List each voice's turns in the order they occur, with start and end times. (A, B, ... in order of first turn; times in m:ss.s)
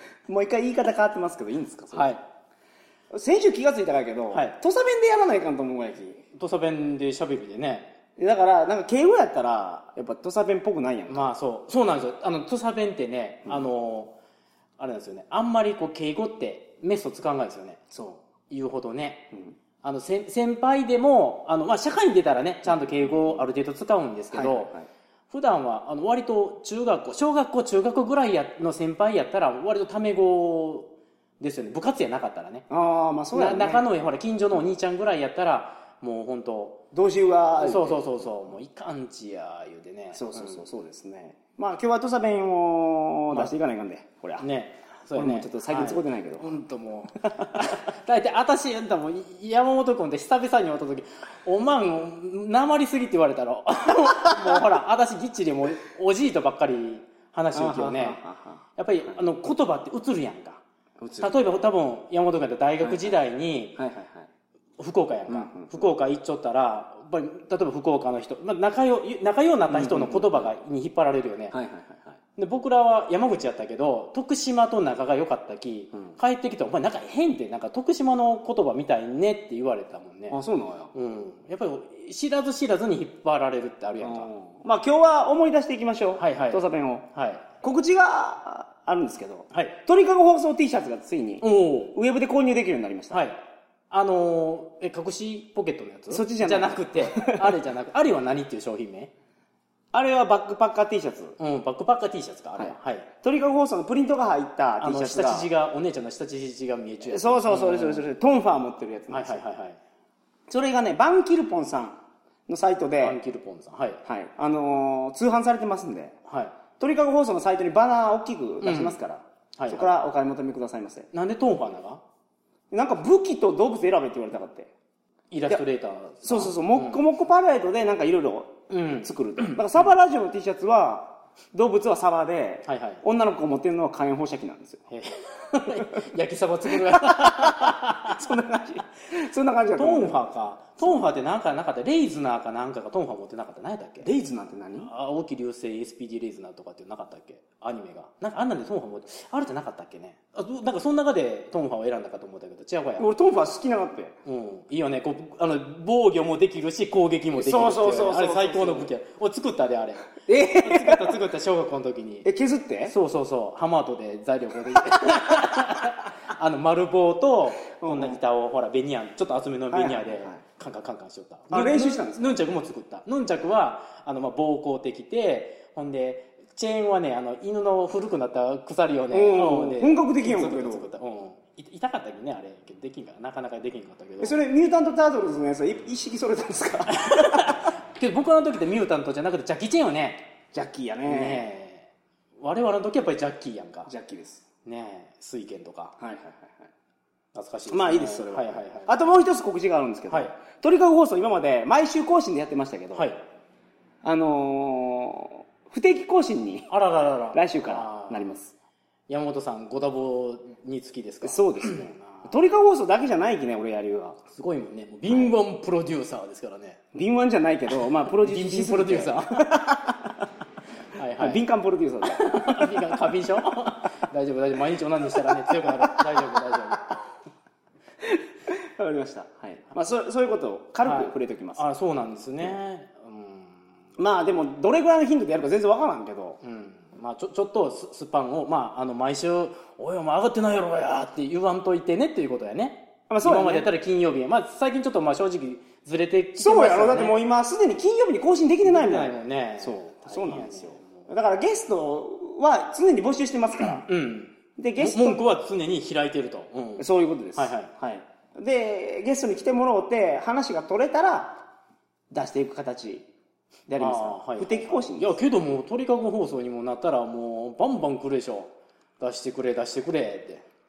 0:00.3-0:02.1 A
0:01.9-0:02.2 B
0:03.1-0:06.2 A
0:06.3-0:07.9 B
0:08.2-0:11.3 A
0:11.1-0:14.1 B
0:14.8-0:17.8 B
0:17.9-0:18.2 A
0:18.5-0:19.3 B
0:19.8-0:24.7 B
0:22.6-0:23.4 A
0:24.3-0:24.9 A
0:25.3-0:32.6 B
0:32.7-0:33.8 A
0:33.3-0:36.8 B
0:36.9-0:38.3 A
0:37.6-0:40.6 B
0:40.1-0:44.5 A
0:44.4-0:58.2 B
0:45.1-0:46.6 A
0:47.2-0:47.8 A
0:57.5-0:59.2 A
0:58.8-1:00.6 B
1:01.0-1:01.4 A
1:01.2-1:03.8 B
1:02.8-1:03.1 A
1:03.8-1:04.3 A
1:04.8-1:11.5 B
1:05.3-1:05.8 A
1:09.7-1:10.5 A
1:11.5-1:12.2 A
1:12.4-1:20.4 B
1:20.3-1:20.9 A
1:20.9-1:24.3 B
1:24.0-1:27.0 A
1:26.2-1:27.5 B
1:27.6-1:33.2 A
1:31.4-1:31.9 B
1:33.1-1:39.1 B
1:36.1-1:37.5 A
1:39.9-1:41.4 A
1:41.4-1:43.1 B
1:42.6-1:45.5 A
1:44.8-1:48.1 B
1:47.0-1:49.4 A
1:49.1-1:49.8 B
1:50.5-1:53.2 A
1:53.0-1:54.0 B
1:54.0-1:56.2 A
1:56.3-1:56.6 B
1:56.8-2:01.1 A
1:58.6-1:59.0 B
1:59.6-1:59.9 B
2:01.1-2:02.0 B
2:02.7-2:04.7 A
2:05.3-2:07.0 B
2:06.2-2:14.9 A
2:08.7-2:09.5 B
2:12.6-2:13.0 B
2:14.9-2:18.2 B
2:16.9-2:20.2 A
2:19.8-2:24.1 B
2:24.0-2:24.9 A
2:24.8-2:33.1 B
2:33.0-2:34.2 A
2:34.2-2:42.3 B
2:37.4-2:38.9 A
2:40.2-2:41.2 A
2:42.2-2:42.9 A
2:42.9-3:04.4 B
2:47.7-2:48.2 A
2:49.7-2:50.4 A
2:51.5-2:52.4 A
2:59.1-3:00.8 A
3:04.2-3:07.6 A
3:06.9-3:10.2 B
3:10.5-3:11.5 A
3:11.0-3:11.9 B
3:12.4-3:13.9 B
3:13.8-3:14.4 A
3:14.6-3:15.9 B
3:16.0-3:16.7 A
3:17.3-3:18.9 B
3:17.7-3:23.1 A
3:22.9-3:23.2 B
3:24.0-3:26.7 A
3:26.7-3:28.3 B
3:27.3-3:28.5 A
3:29.1-3:32.3 B
3:31.2-3:34.2 A
3:34.3-3:36.8 B
3:36.9-3:40.2 A
3:38.1-3:39.9 B
3:40.9-3:41.4 B
3:41.1-3:42.6 A
3:42.0-3:47.0 B
3:45.1-3:46.5 A
3:48.0-3:51.6 A
3:50.8-3:53.7 B
3:54.0-3:56.4 A
3:56.4-4:07.2 B
4:03.1-4:03.7 A
4:06.4-4:13.9 A
4:08.6-4:11.1 B
4:13.8-4:17.7 B
4:14.6-4:15.2 A
4:16.8-4:21.4 A
4:22.1-4:23.1 A
4:23.7-4:25.2 A
4:23.8-4:30.4 B